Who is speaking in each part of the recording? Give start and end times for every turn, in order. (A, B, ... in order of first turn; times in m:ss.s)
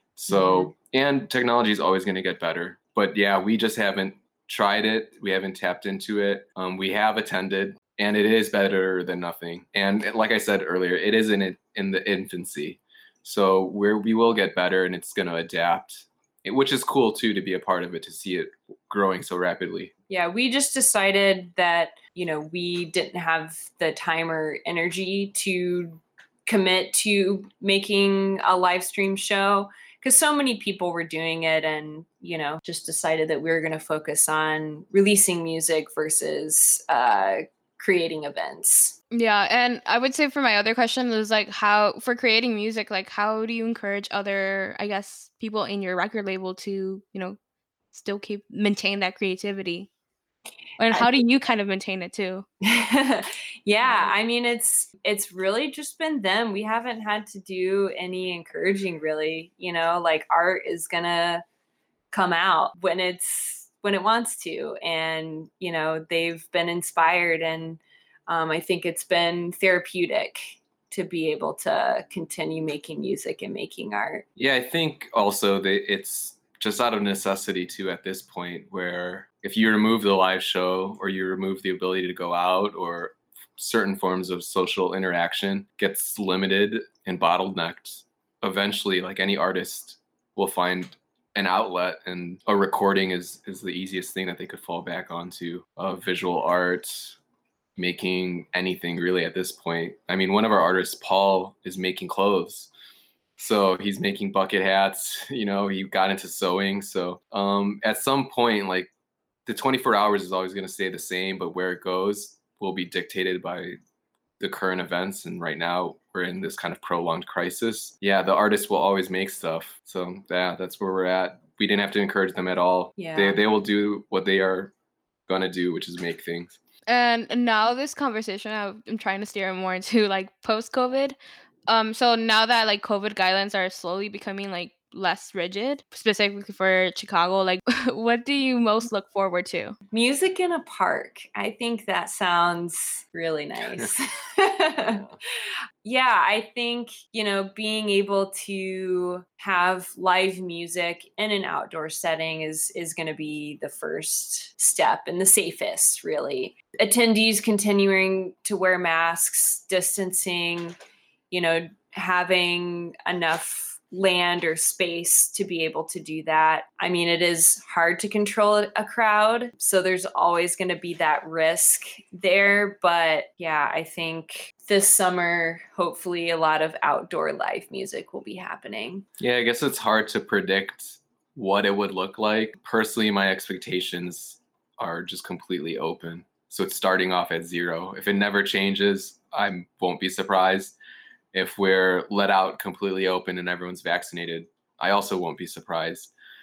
0:00.2-0:19.9 A
0:00.3-0:00.7 B
0:20.1-0:39.0 B
0:39.1-0:47.4 C
0:47.9-0:49.9 C
0:50.8-0:52.4 C
0:52.6-1:01.4 B
0:53.8-0:54.1 C
1:02.1-1:14.2 B
1:14.4-1:37.2 A
1:37.8-1:42.7 A
1:43.4-1:48.9 A
1:49.4-1:53.8 A
1:54.4-2:04.7 A
2:03.0-2:03.4 B
2:05.3-2:06.6 A
2:06.9-2:11.2 C
2:11.7-2:19.8 C
2:19.9-2:25.0 B
2:24.9-2:25.2 A
2:25.8-2:40.8 B
2:41.3-2:59.0 B
2:59.2-3:10.8 A
3:11.3-3:16.1 A